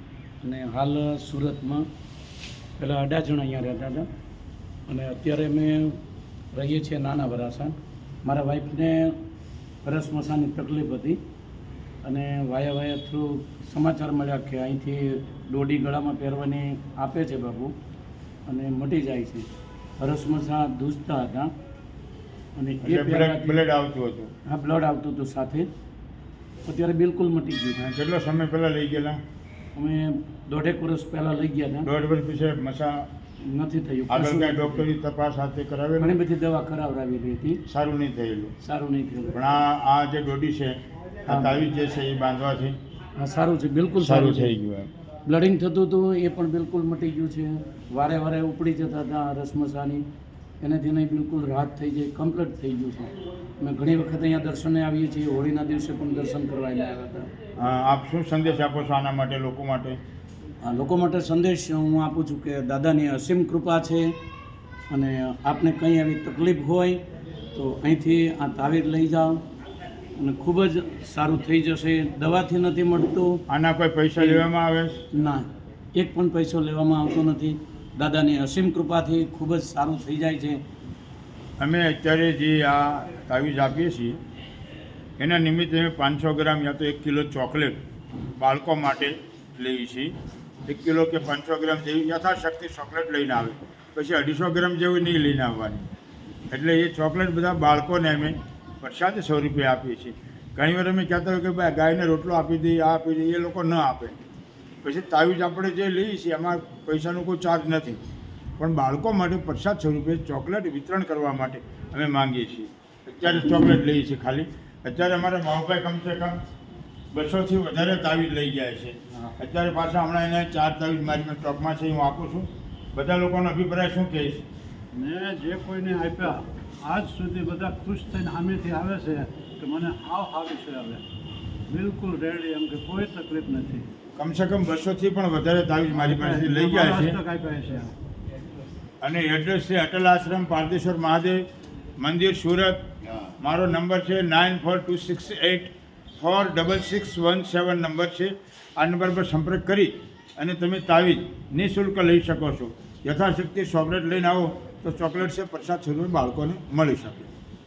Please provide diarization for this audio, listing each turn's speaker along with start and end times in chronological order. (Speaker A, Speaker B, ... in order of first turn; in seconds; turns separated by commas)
Speaker A: 0.4-1.9, Speaker A: 2.8-4.1, Speaker A: 4.9-6.0, Speaker A: 6.5-9.2, Speaker A: 9.8-11.2, Speaker A: 12.0-17.7, Speaker A: 18.4-19.5, Speaker A: 20.0-21.5, Speaker A: 22.6-23.6, Speaker B: 22.8-24.3, Speaker A: 24.4-25.7, Speaker A: 26.6-27.8, Speaker B: 27.8-29.2, Speaker A: 29.7-31.9, Speaker B: 31.9-33.1, Speaker A: 33.4-34.9, Speaker B: 34.1-36.1, Speaker A: 36.0-37.6, Speaker B: 37.7-38.5, Speaker A: 38.6-39.4, Speaker B: 39.3-42.8, Speaker A: 41.3-41.7, Speaker A: 43.1-44.5, Speaker B: 44.0-44.9, Speaker A: 45.2-50.0, Speaker A: 50.6-57.3, Speaker B: 57.6-60.0, Speaker A: 60.6-64.1, Speaker A: 64.9-67.0, Speaker A: 67.5-69.4, Speaker A: 70.2-73.4, Speaker B: 73.5-75.0, Speaker A: 74.2-74.5, Speaker A: 75.1-80.6, Speaker B: 81.6-84.2, Speaker B: 85.2-87.8, Speaker B: 88.4-90.1, Speaker B: 90.7-95.9, Speaker B: 96.5-104.2, Speaker B: 104.8-108.0, Speaker B: 108.6-116.3, Speaker B: 117.1-124.4, Speaker C: 124.9-131.0, Speaker C: 131.7-133.9, Speaker B: 134.2-137.2, Speaker C: 135.9-137.9, Speaker B: 139.0-141.4, Speaker B: 142.0-157.3